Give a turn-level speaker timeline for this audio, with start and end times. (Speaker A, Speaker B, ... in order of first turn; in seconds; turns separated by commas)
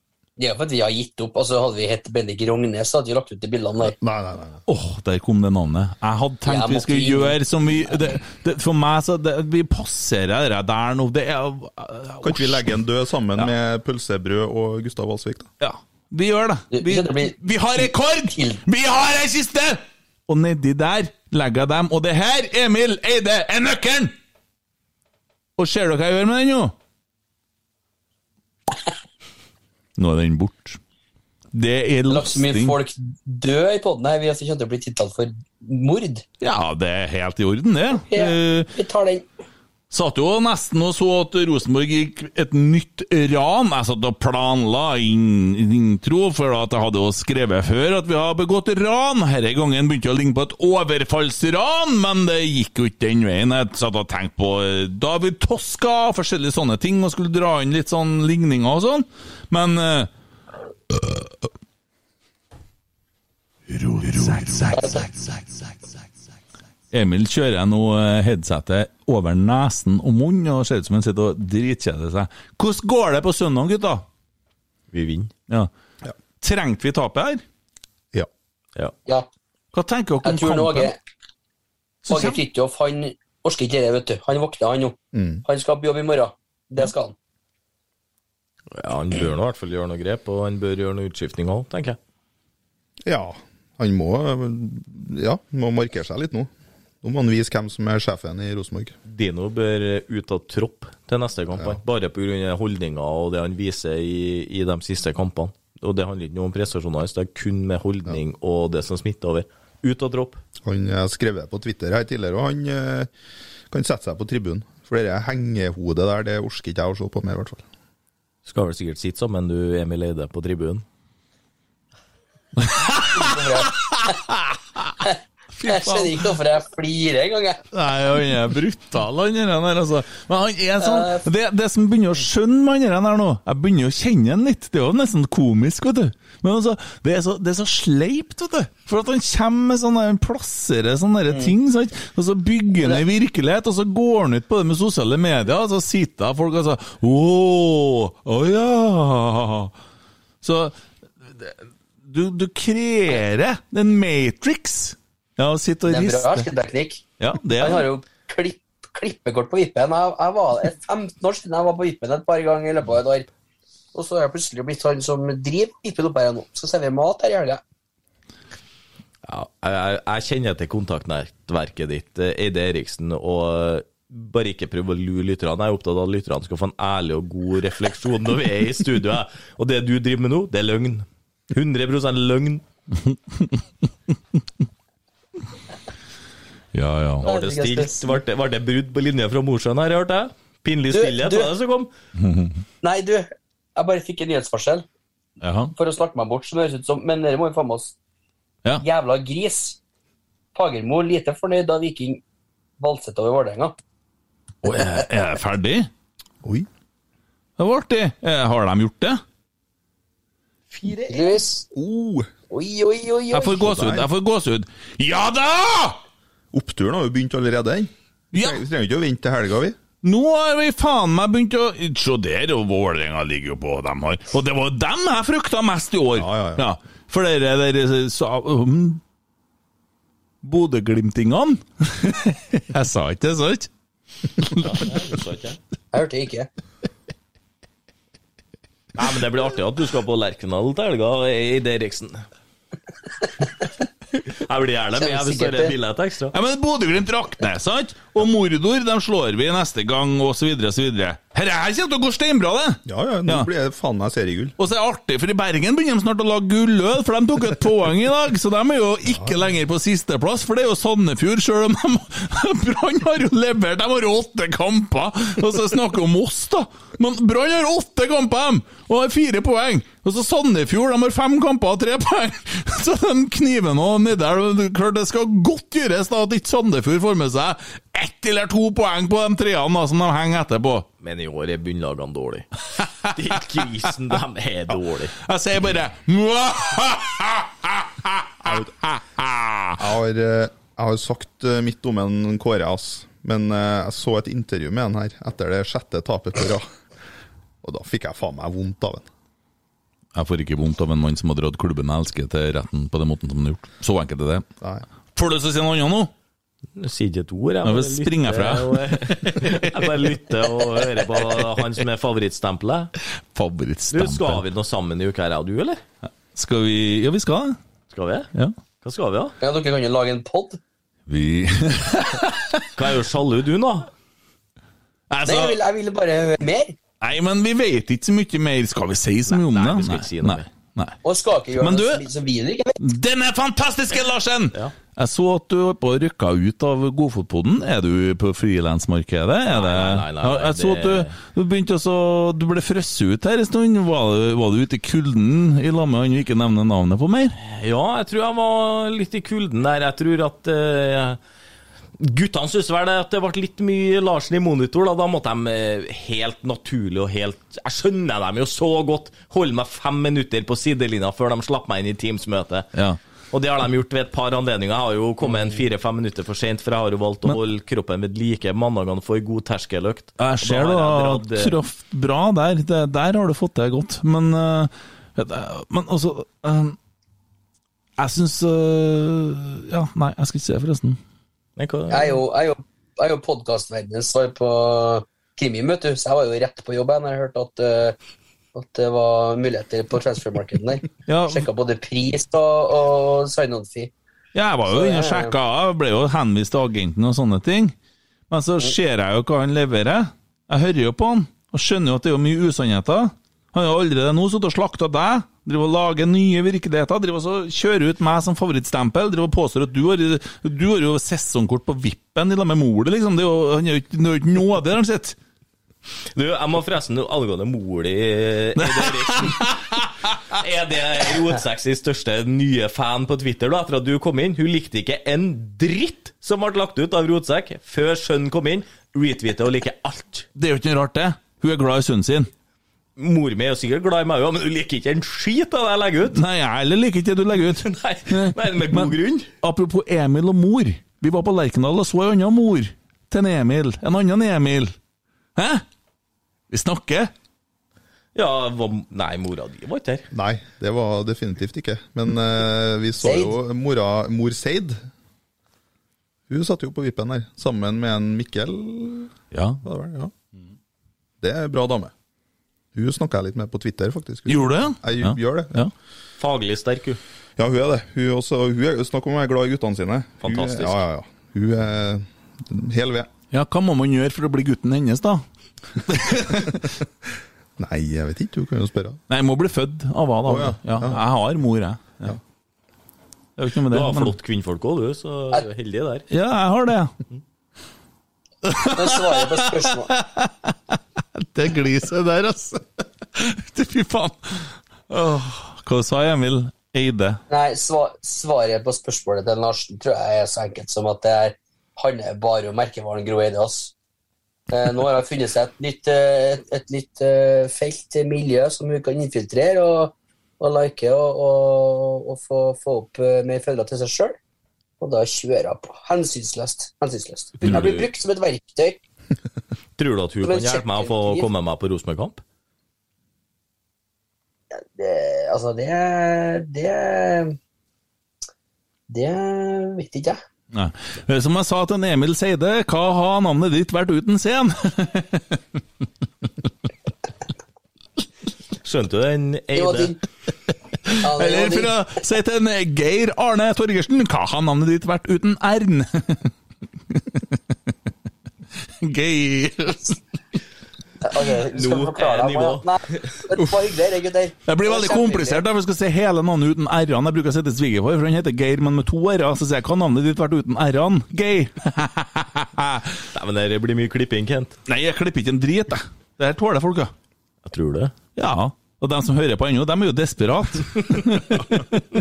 Speaker A: 0.4-4.0, Speaker B: 3.9-4.6, Speaker C: 4.7-12.7, Speaker A: 6.5-8.0, Speaker B: 12.2-15.5, Speaker C: 15.6-24.1, Speaker A: 16.7-18.6, Speaker C: 25.6-26.7, Speaker C: 30.0-30.8, Speaker C: 31.5-32.8, Speaker A: 32.1-36.2, Speaker C: 36.4-38.7, Speaker A: 38.1-39.2, Speaker C: 39.9-60.1, Speaker C: 60.9-61.3, Speaker A: 64.6-65.1, Speaker C: 66.9-74.0, Speaker D: 74.9-75.3, Speaker C: 76.4-77.4, Speaker C: 79.7-80.9, Speaker A: 80.2-81.0, Speaker C: 82.0-82.4, Speaker A: 82.1-87.1, Speaker B: 85.1-85.4, Speaker D: 88.7-92.0, Speaker B: 93.0-96.5, Speaker B: 97.0-98.9, Speaker D: 99.1-110.4, Speaker B: 110.6-113.1, Speaker B: 113.7-117.7, Speaker D: 118.5-120.8, Speaker C: 122.6-125.0, Speaker A: 123.1-124.2, Speaker C: 125.5-126.3, Speaker A: 125.7-127.6, Speaker C: 127.7-149.7, Speaker A: 130.8-131.2, Speaker C: 150.4-156.5, Speaker A: 155.9-157.0, Speaker C: 157.2-157.9, Speaker A: 157.6-163.3, Speaker A: 163.9-167.6, Speaker D: 169.2-182.6, Speaker C: 183.0-183.5, Speaker C: 186.7-187.2, Speaker D: 187.2-191.9, Speaker A: 187.2-188.2, Speaker A: 190.9-191.5, Speaker C: 192.2-192.6, Speaker A: 192.8-194.8, Speaker C: 195.4-195.7, Speaker A: 195.7-197.9, Speaker A: 198.8-199.8, Speaker A: 200.5-202.2, Speaker A: 202.8-203.7, Speaker C: 204.6-205.9, Speaker B: 206.4-206.7, Speaker C: 207.6-209.2, Speaker D: 210.7-211.4, Speaker A: 211.1-211.7, Speaker B: 211.7-212.3, Speaker A: 212.5-213.7, Speaker C: 213.3-216.0, Speaker B: 213.5-214.1, Speaker B: 216.5-219.8, Speaker C: 218.3-218.6, Speaker C: 220.0-229.0, Speaker B: 226.1-226.6, Speaker C: 230.4-233.7, Speaker C: 234.4-234.7, Speaker D: 234.6-235.6, Speaker A: 235.9-236.5, Speaker D: 238.9-242.2, Speaker D: 244.2-246.3, Speaker A: 245.0-245.7, Speaker C: 246.3-253.5, Speaker B: 252.9-254.5, Speaker C: 254.6-280.9, Speaker D: 281.0-285.1, Speaker C: 285.2-289.8, Speaker B: 288.4-288.7, Speaker B: 289.8-296.7, Speaker B: 297.6-299.1, Speaker C: 300.1-304.4, Speaker B: 304.6-304.8, Speaker C: 305.1-306.1, Speaker D: 306.8-312.9, Speaker C: 307.6-309.9, Speaker C: 313.3-314.4, Speaker D: 313.9-315.8, Speaker C: 316.3-317.6, Speaker D: 317.9-318.3, Speaker D: 318.8-319.3, Speaker A: 319.4-320.6, Speaker C: 321.1-322.7, Speaker D: 322.7-323.9, Speaker C: 325.1-325.6, Speaker A: 325.2-326.8, Speaker C: 327.0-331.0, Speaker D: 329.3-330.5, Speaker A: 331.0-332.8, Speaker C: 331.6-332.0, Speaker C: 332.8-347.3, Speaker D: 339.5-341.1, Speaker D: 347.4-351.2, Speaker D: 352.0-362.7, Speaker C: 362.7-363.0, Speaker D: 363.3-371.6, Speaker C: 370.2-376.8, Speaker C: 378.0-381.0, Speaker D: 381.6-382.2, Speaker A: 381.9-387.9, Speaker A: 388.5-393.9, Speaker C: 391.1-391.5, Speaker C: 394.3-397.7, Speaker A: 394.7-395.3, Speaker C: 398.3-415.1, Speaker D: 416.1-419.6, Speaker C: 418.6-420.1, Speaker D: 420.3-430.3, Speaker C: 430.4-432.3, Speaker D: 433.0-436.2, Speaker C: 436.1-444.8, Speaker D: 437.6-439.3, Speaker C: 445.4-445.6, Speaker C: 446.5-447.1, Speaker D: 448.1-450.1, Speaker B: 450.1-454.8, Speaker A: 453.0-453.3, Speaker B: 456.3-459.1, Speaker C: 459.3-459.6, Speaker B: 459.6-460.1, Speaker B: 461.2-461.9, Speaker B: 462.7-465.6, Speaker C: 464.3-465.7, Speaker D: 466.2-467.0, Speaker B: 467.4-473.1, Speaker D: 470.2-470.8, Speaker C: 473.3-476.7, Speaker B: 477.6-479.0, Speaker C: 479.1-482.1, Speaker B: 480.2-481.0, Speaker C: 483.4-484.1, Speaker D: 483.7-486.0, Speaker C: 486.1-486.9, Speaker C: 488.4-497.2, Speaker A: 488.6-489.9, Speaker A: 497.3-503.7, Speaker A: 504.5-514.2, Speaker A: 514.8-518.8, Speaker D: 517.4-517.9, Speaker D: 519.8-522.2, Speaker A: 520.2-521.3, Speaker A: 524.5-527.4, Speaker A: 528.9-530.2, Speaker C: 530.5-535.4, Speaker D: 538.6-539.9, Speaker A: 539.5-540.0, Speaker C: 540.9-546.3, Speaker A: 541.0-541.8, Speaker C: 546.9-547.5, Speaker C: 548.8-550.0, Speaker A: 551.0-555.4, Speaker D: 551.5-553.2, Speaker C: 554.5-563.0, Speaker D: 563.1-564.5, Speaker C: 564.7-566.9, Speaker D: 567.4-567.9, Speaker C: 568.1-571.8, Speaker D: 570.9-571.6